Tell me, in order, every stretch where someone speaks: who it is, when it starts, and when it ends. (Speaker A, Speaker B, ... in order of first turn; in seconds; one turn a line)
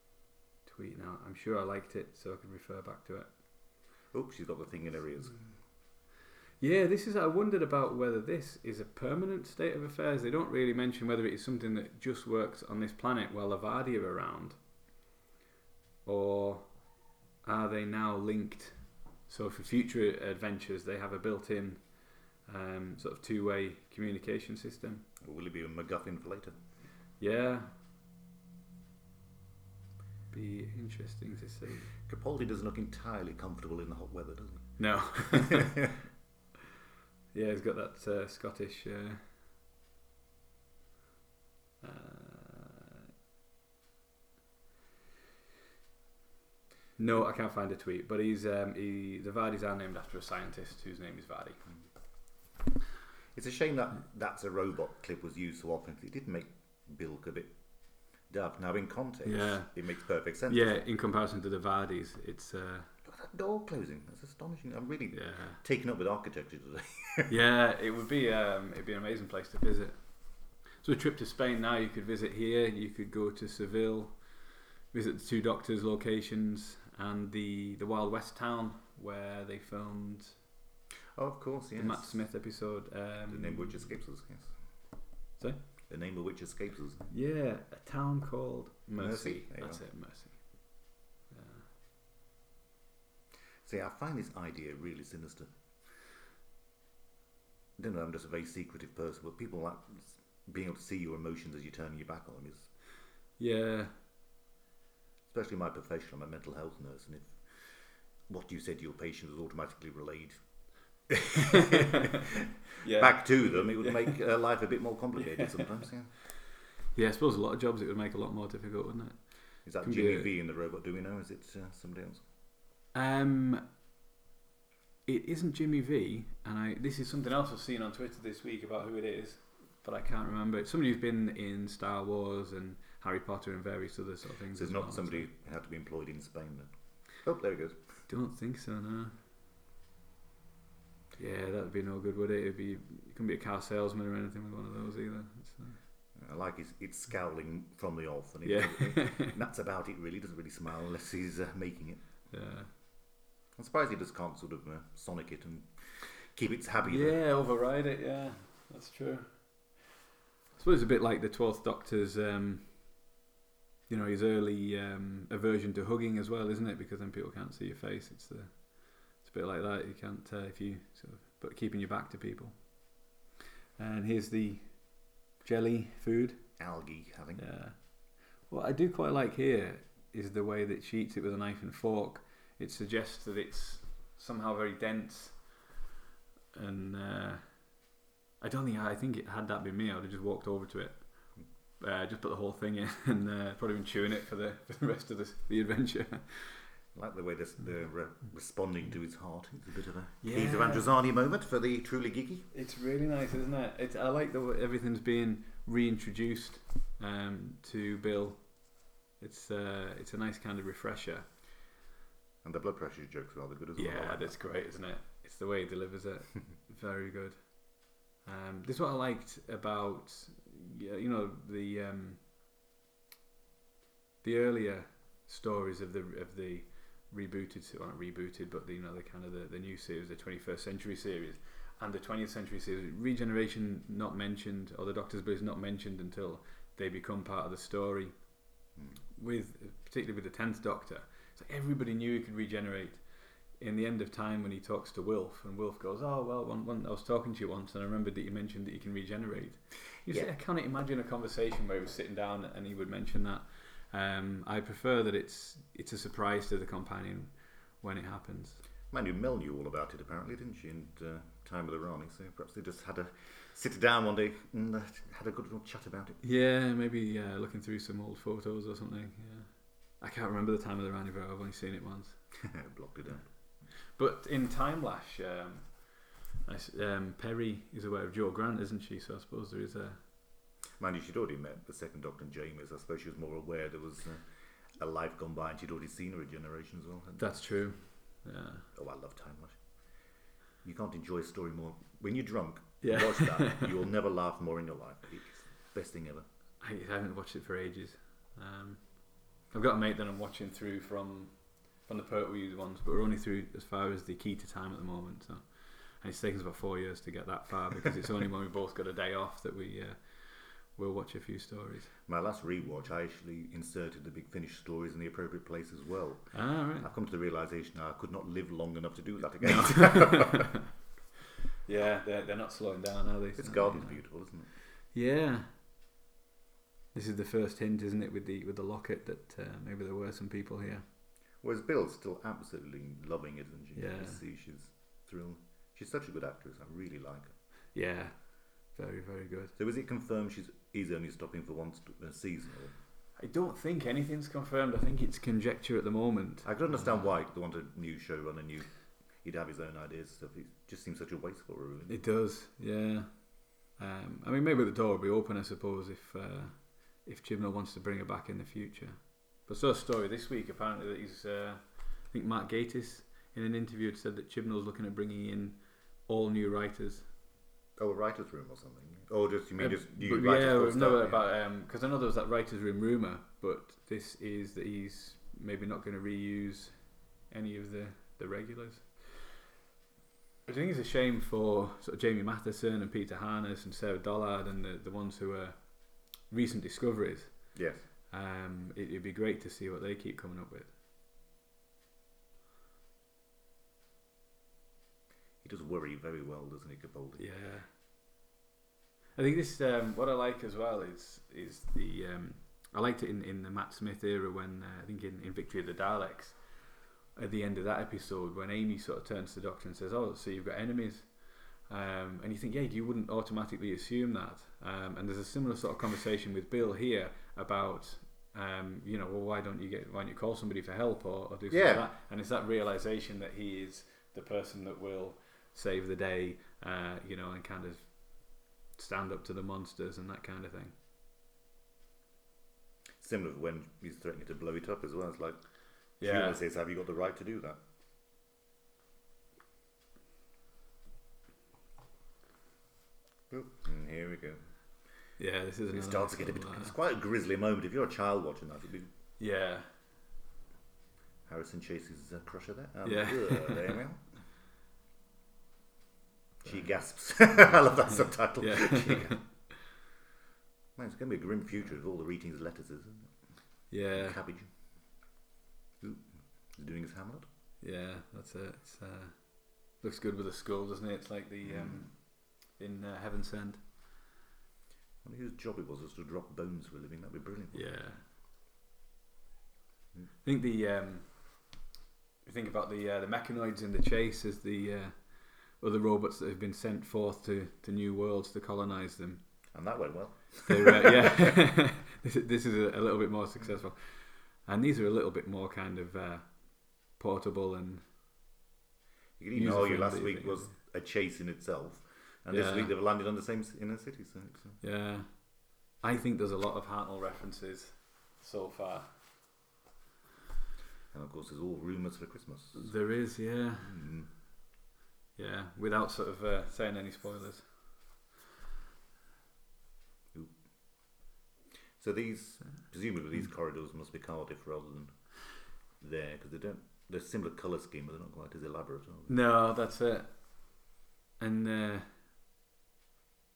Speaker A: 0.6-3.3
Speaker B: 4.1-5.4
Speaker A: 6.6-14.6
Speaker A: 16.0-16.8
Speaker A: 17.4-25.1
Speaker B: 25.2-26.5
Speaker A: 27.2-27.7
Speaker A: 30.3-31.9
Speaker B: 32.0-35.9
Speaker A: 34.8-35.8
Speaker A: 37.3-39.3
Speaker A: 41.8-43.0
Speaker A: 47.0-51.6
Speaker B: 53.3-57.5
Speaker B: 58.3-60.7
Speaker A: 59.2-59.7
Speaker A: 60.5-62.9
Speaker B: 63.0-67.3
Speaker A: 65.1-65.6
Speaker A: 67.3-80.4
Speaker B: 81.2-82.2
Speaker A: 81.8-83.8
Speaker B: 83.3-84.5
Speaker B: 85.9-87.1
Speaker A: 87.1-91.7
Speaker B: 89.0-89.8
Speaker B: 93.6-95.5
Speaker B: 97.8-102.7
Speaker A: 103.4-103.9
Speaker B: 105.3-110.4
Speaker B: 111.1-116.1
Speaker A: 111.5-112.2
Speaker A: 112.8-114.1
Speaker A: 115.3-115.6
Speaker A: 116.9-120.3
Speaker B: 119.6-122.2
Speaker A: 122.9-123.6
Speaker A: 125.0-135.3
Speaker B: 134.5-136.7
Speaker B: 137.2-137.8
Speaker A: 138.1-139.2
Speaker A: 141.2-145.8
Speaker B: 146.1-152.0
Speaker A: 148.4-149.4
Speaker A: 152.3-152.7
Speaker B: 153.5-157.2
Speaker A: 156.8-159.8
Speaker A: 160.5-163.0
Speaker A: 163.9-172.8
Speaker A: 173.8-176.4
Speaker B: 176.6-177.4
Speaker A: 177.4-177.8
Speaker A: 178.4-185.6
Speaker A: 186.5-187.9
Speaker A: 188.4-196.7
Speaker B: 196.9-202.5
Speaker A: 200.2-200.9
Speaker A: 202.5-211.3
Speaker B: 212.4-214.3
Speaker A: 213.8-222.2
Speaker A: 224.2-238.2
Speaker A: 239.1-243.0
Speaker A: 243.6-258.6
Speaker B: 258.9-266.2
Speaker A: 266.2-272.2
Speaker B: 272.4-273.3
Speaker A: 273.9-280.0
Speaker B: 280.8-287.4
Speaker A: 287.2-288.6
Speaker B: 288.7-289.6
Speaker B: 290.6-296.2
Speaker A: 292.8-293.8
Speaker A: 296.6-311.9
Speaker B: 312.1-320.5
Speaker A: 316.3-316.9
Speaker A: 319.4-320.6
Speaker A: 321.6-324.0
Speaker B: 323.4-324.5
Speaker A: 324.9-325.5
Speaker A: 326.9-330.9
Speaker B: 331.4-337.3
Speaker A: 333.8-334.2
Speaker A: 337.7-338.2
Speaker A: 338.7-339.5
Speaker B: 339.6-342.8
Speaker A: 343.2-346.9
Speaker B: 346.4-348.7
Speaker B: 349.2-352.0
Speaker A: 351.9-353.1
Speaker A: 353.7-367.1
Speaker B: 367.8-371.3
Speaker A: 369.6-379.3
Speaker A: 380.4-387.6
Speaker B: 387.5-387.9
Speaker A: 388.1-390.7
Speaker B: 395.4-397.2
Speaker A: 397.2-397.7
Speaker A: 399.1-406.4
Speaker A: 407.1-430.7
Speaker B: 421.5-421.9
Speaker B: 433.0-435.4
Speaker A: 436.0-436.4
Speaker B: 436.0-437.6
Speaker B: 443.3-444.4
Speaker A: 445.2-446.7
Speaker B: 445.7-448.9
Speaker A: 449.2-449.7
Speaker B: 451.2-454.1
Speaker A: 452.8-453.8
Speaker B: 456.4-459.2
Speaker A: 458.4-459.4
Speaker B: 460.8-463.1
Speaker A: 463.7-464.2
Speaker B: 463.9-464.5
Speaker B: 465.8-467.2
Speaker A: 467.6-473.6
Speaker B: 471.4-471.9
Speaker B: 475.0-477.7
Speaker A: 477.5-478.0
Speaker A: 480.2-481.5
Speaker A: 482.2-489.2
Speaker B: 489.5-491.4
Speaker A: 490.5-497.8
Speaker B: 499.2-504.6
Speaker A: 499.4-500.5
Speaker A: 502.3-502.7
Speaker A: 504.6-508.9
Speaker B: 510.9-512.7
Speaker A: 512.5-513.8
Speaker B: 513.6-514.1
Speaker A: 515.1-517.5
Speaker B: 521.8-525.1
Speaker B: 525.8-529.1
Speaker A: 529.1-532.0